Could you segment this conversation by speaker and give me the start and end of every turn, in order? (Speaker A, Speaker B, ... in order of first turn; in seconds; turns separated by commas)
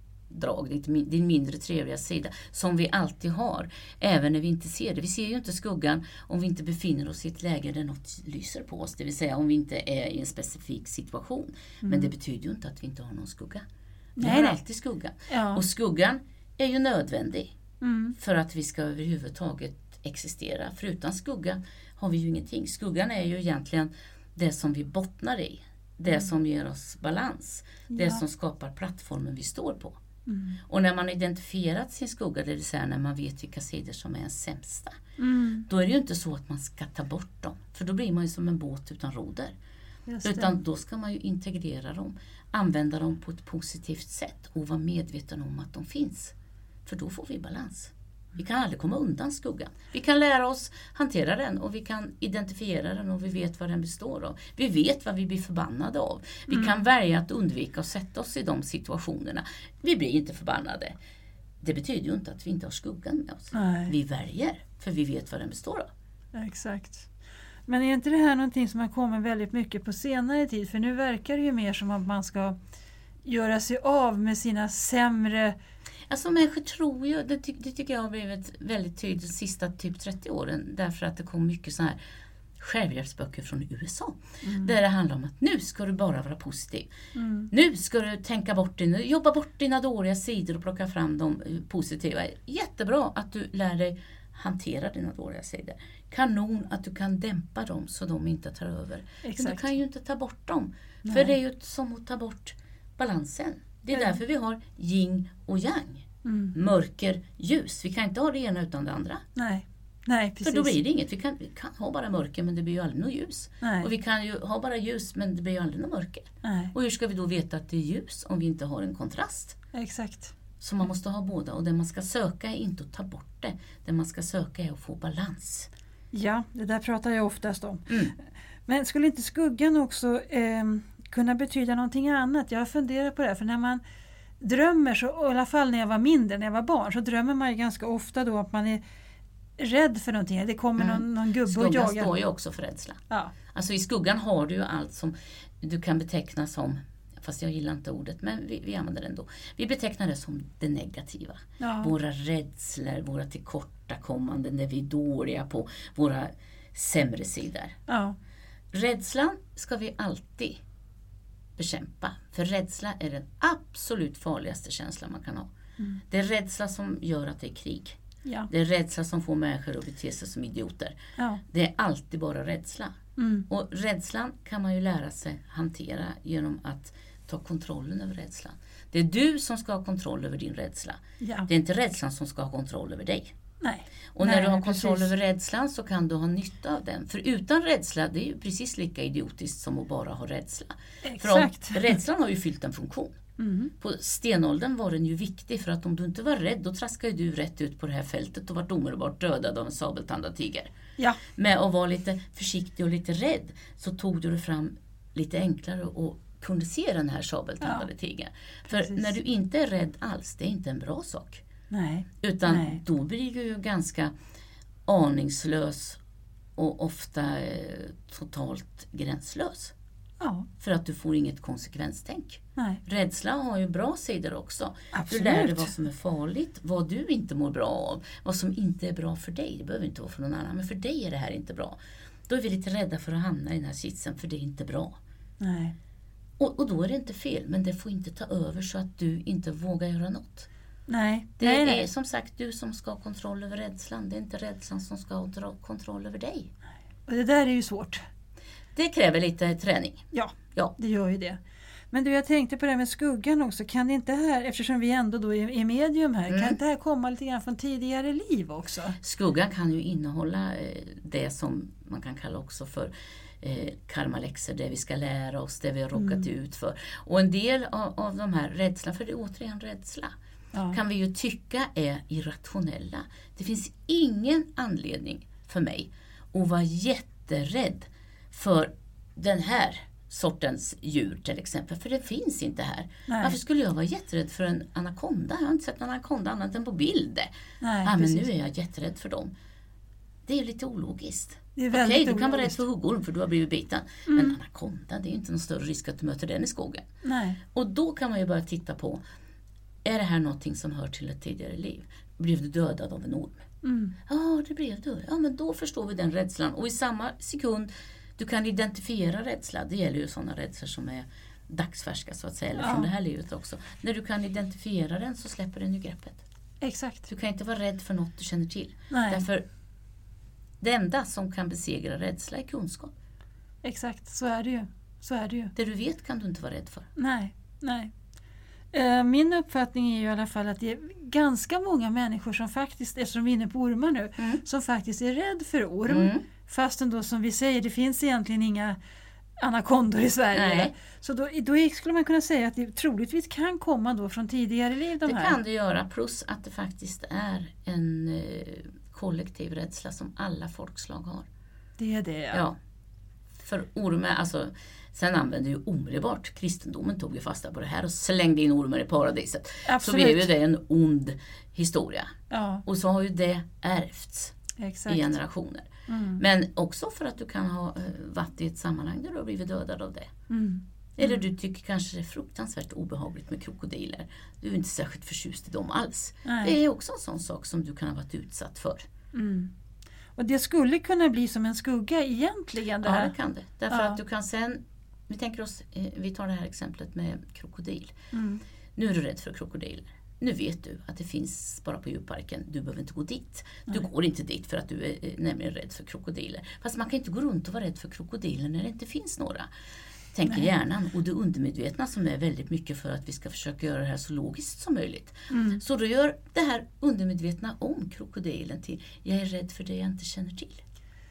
Speaker A: 0.3-13.6, Speaker B: 11.8-12.1, Speaker B: 14.2-14.6, Speaker A: 14.2-17.5, Speaker B: 15.3-15.6, Speaker B: 17.8-18.1, Speaker A: 18.2-30.0, Speaker B: 27.9-28.2, Speaker B: 30.3-30.6, Speaker A: 30.6-35.0, Speaker B: 35.2-35.7, Speaker A: 35.7-39.5, Speaker B: 40.1-40.6, Speaker A: 40.2-46.3, Speaker A: 46.8-61.0, Speaker B: 56.5-56.8, Speaker A: 61.6-65.9, Speaker B: 63.5-63.9, Speaker B: 66.3-67.1, Speaker B: 67.7-72.6, Speaker B: 73.2-75.5, Speaker A: 76.1-82.0, Speaker A: 82.6-86.9, Speaker B: 84.4-84.7, Speaker B: 87.1-87.5, Speaker A: 87.5-109.2, Speaker B: 99.2-99.7, Speaker B: 101.0-101.3, Speaker B: 103.9-104.2, Speaker B: 106.2-106.5, Speaker B: 109.3-110.8, Speaker A: 110.4-119.6, Speaker B: 113.6-113.9, Speaker B: 116.4-116.7, Speaker B: 119.7-120.3, Speaker A: 120.6-125.7, Speaker B: 126.1-128.1, Speaker A: 127.9-128.1, Speaker B: 128.7-133.8, Speaker B: 134.4-138.8, Speaker B: 139.6-142.1, Speaker A: 140.8-157.8, Speaker B: 151.6-151.9, Speaker B: 157.9-158.2, Speaker A: 158.7-160.6, Speaker A: 161.6-165.5, Speaker A: 166.1-168.0, Speaker B: 168.2-168.5, Speaker A: 168.5-173.0, Speaker B: 171.2-171.4, Speaker B: 173.2-173.4, Speaker A: 173.5-183.3, Speaker B: 181.2-181.5, Speaker B: 183.6-185.1, Speaker A: 184.1-193.2, Speaker B: 191.0-192.0, Speaker B: 193.4-193.7, Speaker A: 193.8-200.7, Speaker A: 201.3-211.4, Speaker B: 207.6-207.9, Speaker B: 208.7-209.1, Speaker B: 211.7-212.8, Speaker A: 212.2-214.1, Speaker A: 214.9-216.0, Speaker A: 216.6-219.7, Speaker B: 220.2-220.5, Speaker A: 220.6-234.9, Speaker B: 224.9-225.7, Speaker B: 235.4-235.8, Speaker A: 236.4-240.5, Speaker B: 240.9-241.9, Speaker A: 241.4-246.5, Speaker B: 247.1-248.0, Speaker A: 248.7-250.7, Speaker B: 250.1-251.4, Speaker B: 251.9-259.0, Speaker A: 256.3-256.6, Speaker A: 259.0-270.1, Speaker B: 265.9-266.2, Speaker A: 270.7-287.3, Speaker B: 283.1-283.4, Speaker B: 287.6-288.2, Speaker A: 287.8-289.3, Speaker A: 290.2-296.9, Speaker B: 291.5-292.6, Speaker B: 294.1-294.4, Speaker B: 297.0-297.4, Speaker A: 297.5-299.0, Speaker A: 299.8-303.4, Speaker B: 303.6-303.9, Speaker A: 304.1-316.2, Speaker B: 312.6-312.9, Speaker B: 316.6-317.1, Speaker A: 317.1-319.4, Speaker B: 318.9-319.2, Speaker A: 320.6-322.9, Speaker B: 323.6-325.5, Speaker A: 325.5-326.9, Speaker B: 326.9-327.9, Speaker B: 328.7-338.8, Speaker A: 335.9-336.2, Speaker B: 339.4-345.4, Speaker A: 340.3-340.7, Speaker A: 345.0-351.3, Speaker B: 351.8-352.4, Speaker A: 352.3-352.6, Speaker A: 353.4-362.1, Speaker B: 359.6-360.3, Speaker B: 362.3-362.6, Speaker A: 362.6-364.4, Speaker B: 364.6-365.1, Speaker A: 364.9-370.1, Speaker B: 365.9-366.2, Speaker B: 370.3-371.3, Speaker A: 371.0-378.9, Speaker B: 376.2-376.6, Speaker B: 379.1-379.5, Speaker B: 380.1-383.1, Speaker A: 382.8-387.9, Speaker B: 383.7-384.0, Speaker B: 388.1-388.4, Speaker A: 388.8-399.5, Speaker A: 400.1-410.6, Speaker B: 405.3-405.6